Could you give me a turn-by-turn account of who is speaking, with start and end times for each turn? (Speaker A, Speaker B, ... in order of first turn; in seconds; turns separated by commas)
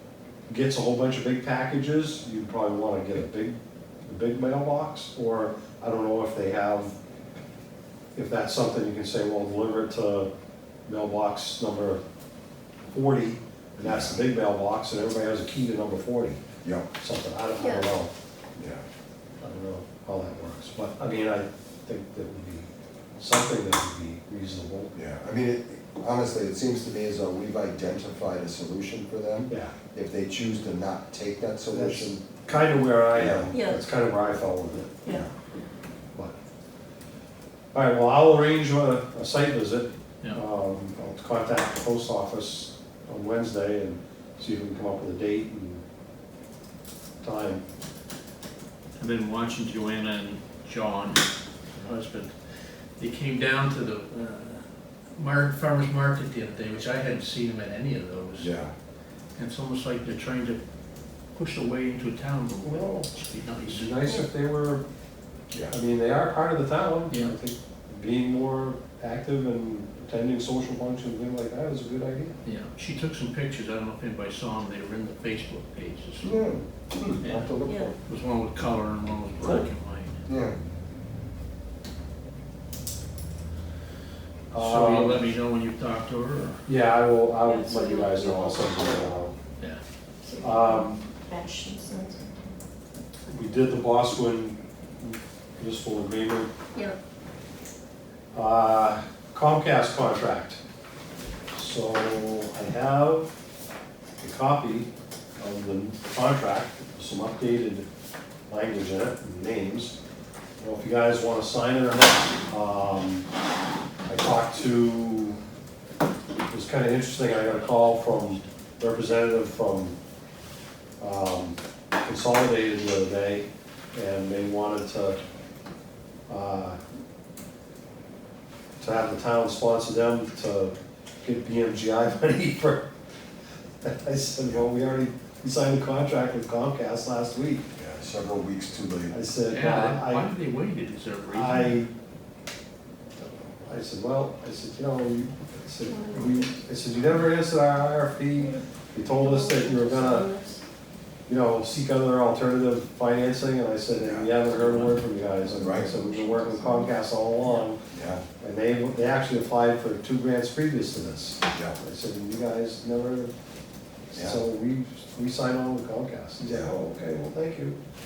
Speaker A: 0.5-6.9, Speaker A: 8.1-10.3, Speaker A: 10.8-12.0, Speaker A: 12.9-16.4, Speaker B: 13.8-14.2, Speaker B: 16.6-16.9, Speaker A: 16.9-18.1, Speaker C: 17.6-17.9, Speaker B: 18.6-18.8, Speaker A: 19.4-24.9, Speaker B: 24.9-32.3, Speaker A: 29.5-29.7, Speaker A: 31.7-35.0, Speaker B: 33.1-33.5, Speaker C: 33.5-33.8, Speaker A: 37.7-45.8, Speaker A: 47.2-47.6, Speaker D: 49.0-51.2, Speaker D: 51.8-52.3, Speaker D: 53.0-58.5, Speaker B: 58.4-58.7, Speaker D: 59.4-60.6, Speaker D: 61.3-63.9, Speaker A: 62.6-63.1, Speaker A: 63.6-64.8, Speaker A: 65.7-72.3, Speaker D: 67.1-67.3, Speaker D: 72.4-76.4, Speaker B: 76.2-77.9, Speaker D: 77.2-77.5, Speaker C: 77.7-77.9, Speaker D: 78.0-80.2, Speaker B: 80.3-80.5, Speaker A: 84.5-85.3, Speaker D: 84.5-86.6, Speaker A: 86.6-89.3, Speaker C: 87.4-89.1, Speaker C: 90.2-92.6, Speaker A: 90.4-91.0, Speaker A: 93.3-96.5, Speaker A: 98.3-100.6, Speaker A: 101.5-103.3, Speaker A: 104.2-107.8, Speaker A: 108.5-110.0, Speaker A: 110.6-113.3, Speaker A: 114.0-115.4, Speaker A: 116.5-120.0, Speaker A: 121.0-125.2, Speaker A: 126.3-126.8, Speaker A: 128.8-132.8, Speaker A: 133.8-137.7, Speaker B: 137.8-139.2, Speaker A: 139.1-140.3, Speaker D: 139.5-141.8, Speaker A: 141.3-141.9, Speaker A: 143.2-150.3, Speaker C: 145.9-146.5, Speaker C: 149.2-150.6, Speaker A: 151.3-157.8, Speaker B: 154.0-154.3, Speaker B: 155.6-155.9, Speaker C: 156.0-156.9, Speaker B: 157.9-158.2, Speaker A: 158.4-163.3, Speaker A: 164.1-167.8, Speaker B: 166.4-166.8